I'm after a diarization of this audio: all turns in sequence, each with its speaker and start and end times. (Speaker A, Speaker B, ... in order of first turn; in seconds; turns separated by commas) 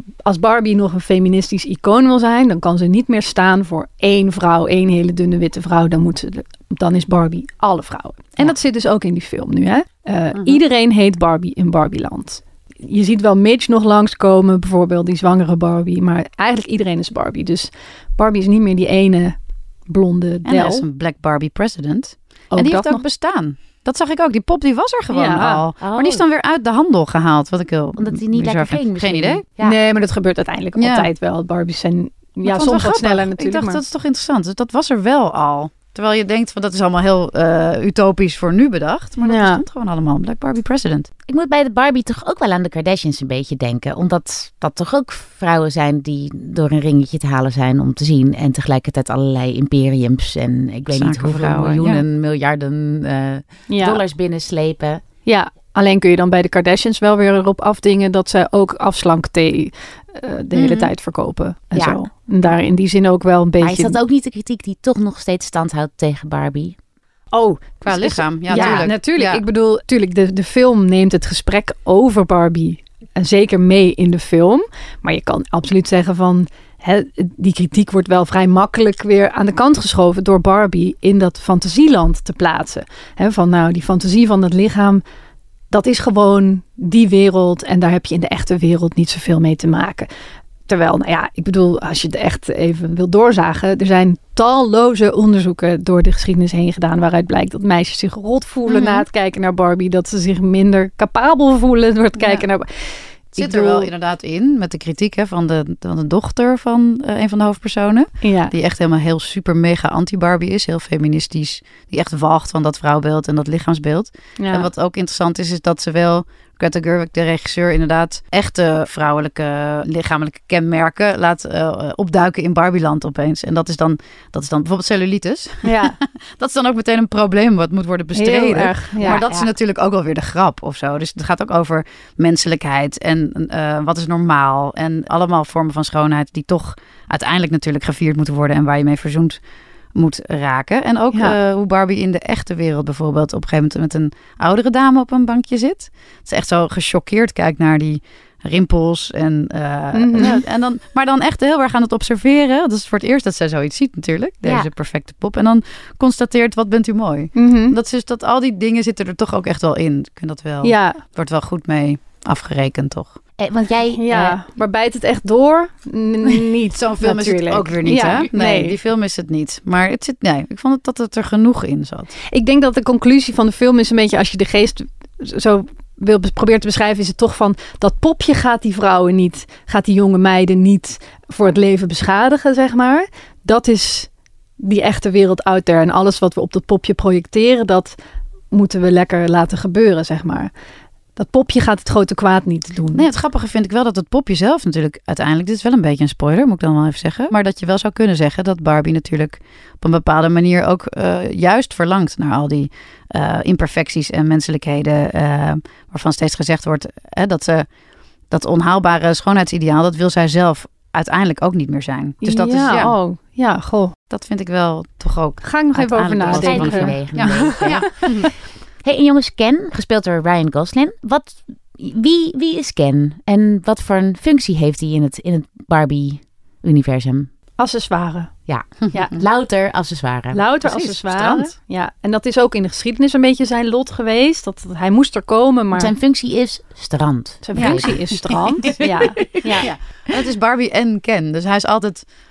Speaker A: 0.2-19.4, Speaker B: 10.3-10.6, Speaker A: 19.9-20.8, Speaker B: 20.4-29.4, Speaker A: 22.5-23.0, Speaker A: 25.1-25.6, Speaker C: 25.8-26.2, Speaker C: 28.0-29.7, Speaker A: 29.6-33.8, Speaker B: 30.8-31.1, Speaker B: 32.4-41.1, Speaker A: 39.2-39.6, Speaker C: 41.3-55.0, Speaker B: 50.9-52.0, Speaker A: 53.7-54.0, Speaker A: 55.2-64.0, Speaker B: 60.5-60.9, Speaker C: 63.6-66.8, Speaker A: 67.3-85.0, Speaker B: 67.8-69.4, Speaker C: 68.5-68.8, Speaker A: 85.7-90.1, Speaker A: 90.7-103.9, Speaker B: 98.7-99.0, Speaker B: 102.2-102.5, Speaker B: 103.4-139.4, Speaker A: 108.2-108.5, Speaker A: 114.4-114.7, Speaker A: 125.6-126.0, Speaker A: 128.1-129.2, Speaker C: 129.0-129.5, Speaker B: 139.9-163.2, Speaker A: 149.9-150.4, Speaker C: 154.4-154.7, Speaker A: 157.3-157.8, Speaker A: 160.6-161.0, Speaker C: 163.4-164.3, Speaker A: 163.9-168.8, Speaker B: 166.7-172.1, Speaker A: 172.3-187.9, Speaker A: 188.5-190.5, Speaker A: 191.2-193.1, Speaker B: 192.9-207.7, Speaker B: 208.3-212.9, Speaker A: 212.2-213.9, Speaker B: 214.1-218.3, Speaker A: 215.4-218.3, Speaker C: 216.2-218.1, Speaker C: 218.8-227.3, Speaker A: 227.6-229.1, Speaker C: 228.5-230.4, Speaker B: 228.9-229.2, Speaker A: 230.3-235.9, Speaker B: 230.6-231.5, Speaker C: 235.7-239.7, Speaker A: 237.4-239.7, Speaker B: 237.5-238.7, Speaker B: 239.6-242.1